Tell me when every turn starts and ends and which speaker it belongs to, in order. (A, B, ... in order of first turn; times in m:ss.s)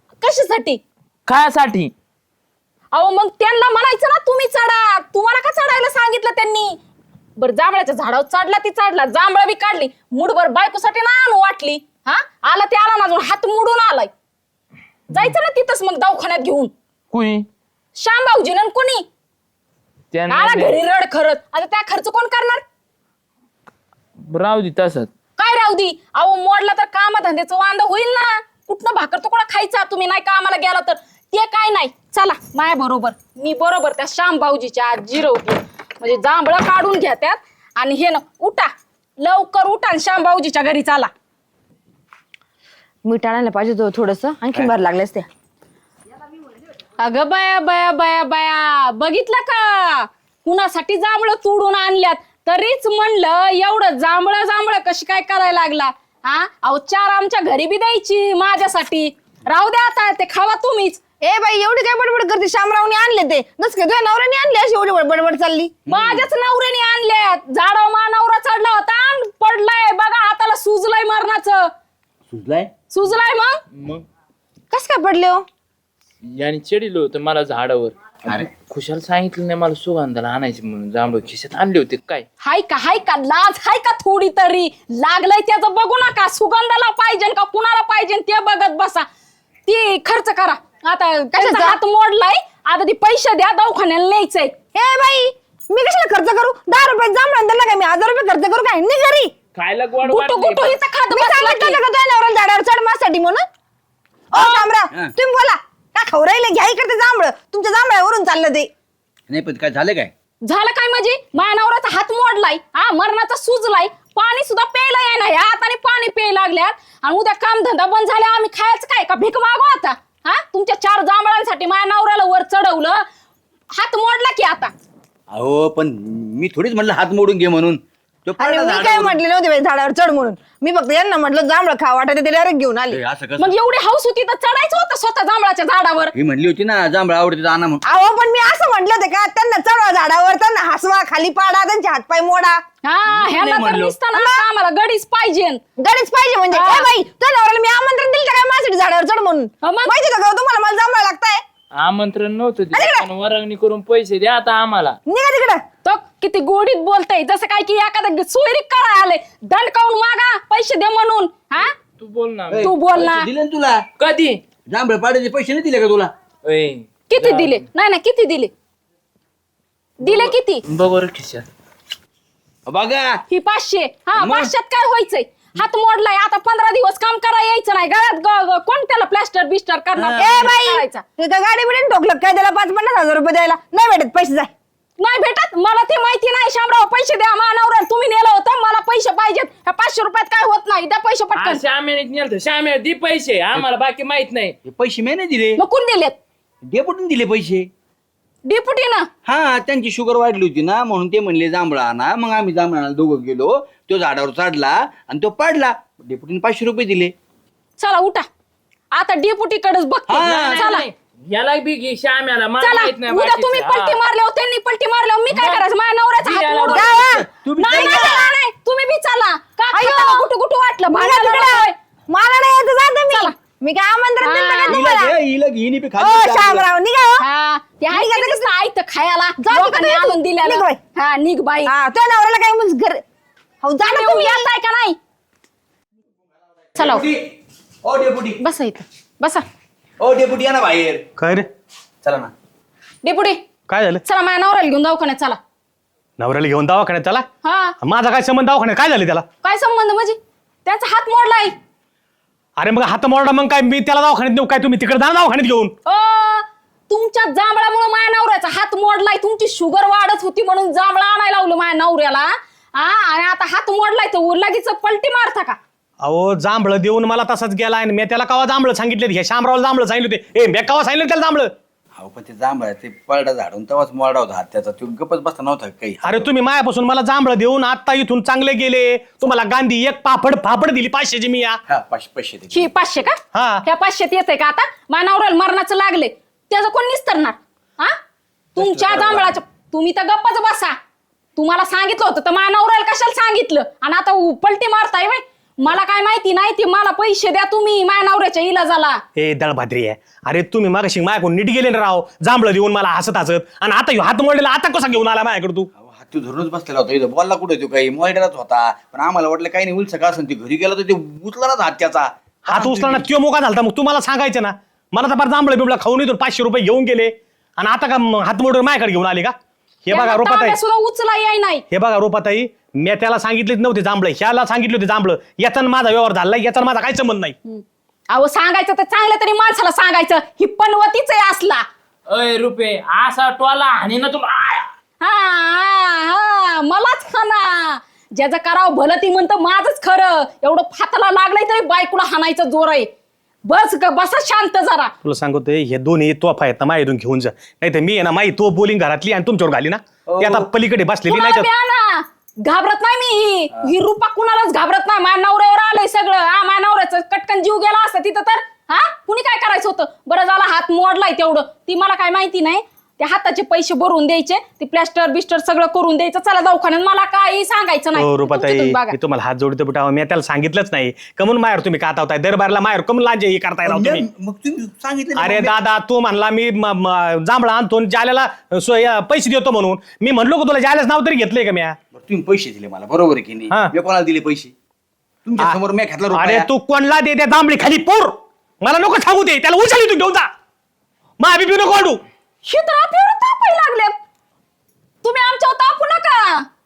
0:00.2-0:00.8 A
0:01.3-0:01.9 B
0:02.9-0:06.8 A
0:07.4-0:14.1 A
0:15.1-0:16.7 A
0:17.1-0:17.5 B
0:17.9-0:19.0 A
0:20.1-0:20.8 B
0:20.3-0:22.6 A
0:24.3-0:25.1 B
0:25.4-0:41.1 A
0:43.0-0:45.3 C
0:47.0-1:01.0 A
1:01.2-1:05.7 C
1:05.9-1:06.3 D
1:05.9-1:11.7 A
1:12.3-1:12.7 D
1:12.9-1:13.6 A
1:13.8-1:14.0 B
1:14.7-1:15.4 C
1:16.2-1:22.2 B
1:22.4-1:29.0 A
1:29.6-1:34.5 A
1:31.3-1:31.8 C
1:34.7-1:39.3 C
1:39.5-1:40.8 B
1:40.0-1:41.8 A
1:41.1-1:43.4 C
1:44.3-1:48.7 C
1:44.3-1:44.6 A
1:49.3-1:50.1 D
1:50.4-2:03.0 A
2:03.7-2:04.7 A
2:05.3-2:09.2 D
2:08.4-2:13.0 C
2:12.9-2:13.5 D
2:13.4-2:16.1 A
2:16.1-2:17.8 D
2:17.8-2:22.6 C
2:22.8-2:25.6 A
2:23.3-2:23.9 B
2:24.1-2:24.4 C
2:25.8-2:31.4 C
2:26.5-2:26.9 A
2:29.6-2:30.0 A
2:31.8-2:35.0 B
2:32.7-2:33.1 C
2:35.1-2:35.6 C
2:35.8-2:41.7 A
2:42.0-2:42.7 B
2:42.5-2:43.8 D
2:42.6-2:43.3 A
2:44.0-2:44.4 B
2:44.7-2:46.1 D
2:46.4-2:47.6 B
2:47.1-2:48.5 A
2:50.0-2:50.6 A
2:50.0-2:51.4 B
2:52.7-2:53.2 D
2:53.3-3:01.0 A
2:54.2-2:54.5 D
3:00.2-3:04.5 C
3:05.0-3:11.6 A
3:11.3-3:14.5 B
3:14.6-3:15.6 D
3:15.6-3:16.2 A
3:16.7-3:17.7 D
3:18.4-3:19.1 A
3:19.2-3:27.1 D
3:27.8-3:28.2 A
3:28.9-3:30.9 A
3:30.1-3:30.6 D
3:30.2-3:34.0 B
3:32.6-3:37.0 A
3:35.3-3:35.6 B
3:36.2-3:37.0 B
3:36.7-3:38.3 C
3:37.0-3:38.2 D
3:37.6-3:41.7 A
3:39.7-3:40.3 C
3:40.9-3:45.2 C
3:44.2-3:44.8 A
3:44.7-3:46.7 D
3:46.0-3:47.2 C
3:47.2-3:51.7 A
3:47.9-3:48.5 C
3:49.4-3:50.8 C
3:51.6-3:53.0 C
3:53.6-3:54.4 C
3:53.8-3:55.0 A
3:56.8-3:57.0 A
3:56.8-3:57.3 D
3:57.8-3:58.4 D
3:58.4-3:59.4 A
4:00.0-4:01.1 D
4:01.2-4:01.5 E
4:02.0-4:02.3 D
4:03.0-4:03.4 A
4:03.7-4:04.0 E
4:04.0-4:05.4 A
4:06.2-4:07.2 E
4:07.4-4:07.8 A
4:07.8-4:09.2 E
4:09.4-4:11.5 A
4:12.6-4:15.7 E
4:15.8-4:25.6 A
4:26.0-4:31.5 E
4:32.0-4:36.3 D
4:36.0-4:41.6 E
4:41.7-4:43.0 D
4:42.5-4:48.0 A
4:43.3-4:43.6 E
4:48.6-4:49.4 D
4:48.6-4:50.8 A
4:51.4-4:59.0 A
4:59.2-5:05.7 E
5:05.8-5:13.0 D
5:12.5-5:19.3 E
5:19.8-5:20.6 E
5:19.9-5:21.6 A
5:21.7-5:27.3 E
5:27.4-5:31.6 A
5:32.1-5:34.7 B
5:35.0-5:42.9 A
5:43.4-5:44.9 A
5:45.0-5:51.5 E
5:50.1-5:50.5 D
5:51.1-6:09.0 A
6:07.9-6:14.0 E
6:13.6-6:15.5 D
6:15.2-6:21.8 E
6:21.9-6:24.5 D
6:25.2-6:26.5 D
6:26.1-6:30.3 E
6:31.2-6:32.0 E
6:32.4-6:34.0 A
6:35.0-6:36.5 A